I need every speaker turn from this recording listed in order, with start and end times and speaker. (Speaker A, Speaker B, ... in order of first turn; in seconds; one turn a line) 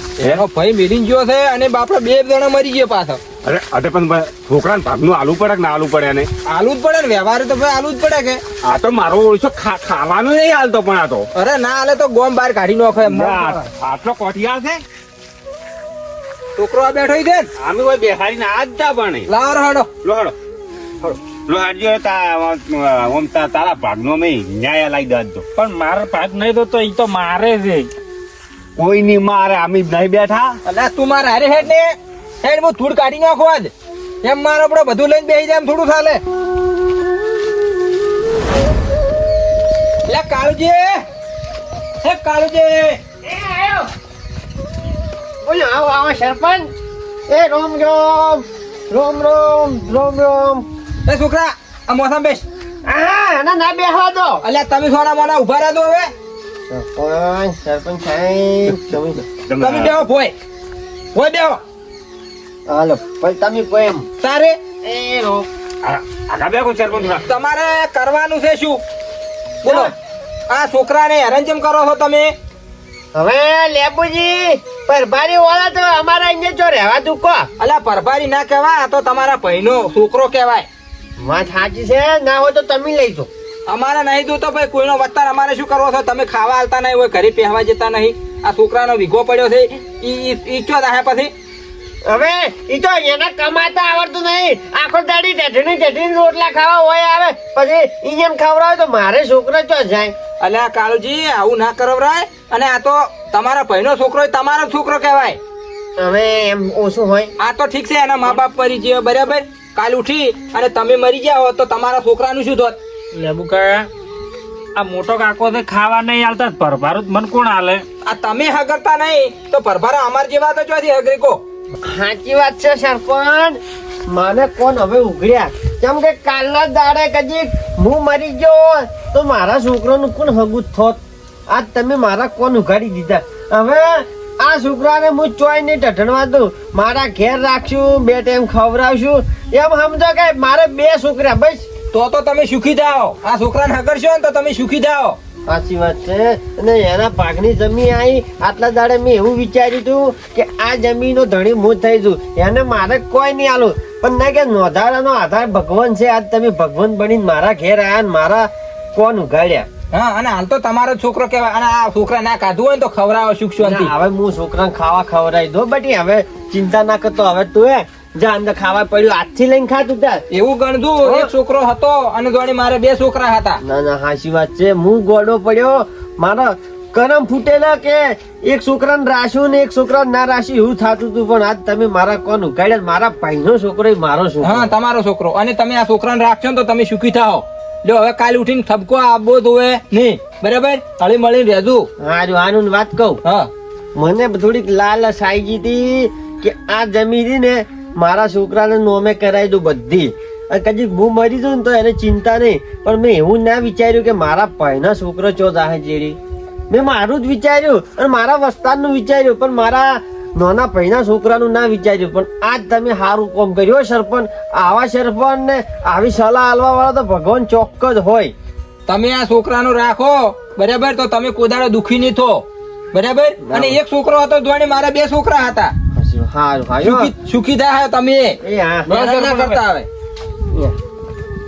Speaker A: 0.2-3.2
Speaker B: 3.4-6.3
Speaker A: 6.5-8.4
Speaker B: 8.6-11.3
Speaker A: 11.3-13.7
Speaker B: 13.0-14.8
Speaker A: 16.6-17.5
Speaker B: 17.6-19.3
Speaker A: 19.3-19.9
Speaker B: 20.0-20.3
Speaker B: 21.0-25.4
Speaker C: 25.6-27.9
Speaker B: 28.8-30.6
Speaker A: 30.6-33.7
Speaker A: 34.2-36.2
Speaker A: 40.1-41.0
Speaker A: 42.0-43.0
Speaker D: 43.2-43.9
Speaker D: 45.4-46.7
Speaker D: 47.3-50.6
Speaker A: 51.0-52.4
Speaker D: 52.9-54.4
Speaker A: 54.4-56.1
Speaker D: 56.7-59.2
Speaker B: 59.4-60.0
Speaker A: 59.6-60.3
Speaker A: 61.1-61.6
Speaker D: 62.7-64.0
Speaker A: 64.2-64.6
Speaker D: 64.8-65.5
Speaker B: 65.8-67.2
Speaker A: 67.2-68.8
Speaker A: 69.6-69.9
Speaker D: 69.7-69.9
Speaker A: 70.5-72.3
Speaker D: 73.1-77.5
Speaker A: 77.6-80.7
Speaker D: 81.2-83.3
Speaker A: 83.7-91.3
Speaker D: 92.0-100.1
Speaker A: 100.4-105.4
Speaker D: 106.0-107.3
Speaker A: 107.4-112.8
Speaker C: 113.1-113.9
Speaker C: 114.7-117.8
Speaker A: 118.0-121.4
Speaker D: 121.9-141.7
Speaker A: 141.9-145.2
Speaker D: 145.5-159.7
Speaker A: 159.9-163.9
Speaker D: 163.6-170.2
Speaker A: 170.3-173.6
Speaker D: 171.0-171.3
Speaker D: 173.6-184.7
Speaker A: 184.4-191.9
Speaker D: 192.0-193.2
Speaker A: 193.2-193.5
Speaker D: 193.9-206.2
Speaker D: 206.7-218.3
Speaker A: 218.9-225.7
Speaker D: 223.4-223.8
Speaker D: 225.9-227.1
Speaker A: 226.8-229.9
Speaker D: 228.4-228.9
Speaker C: 228.9-229.6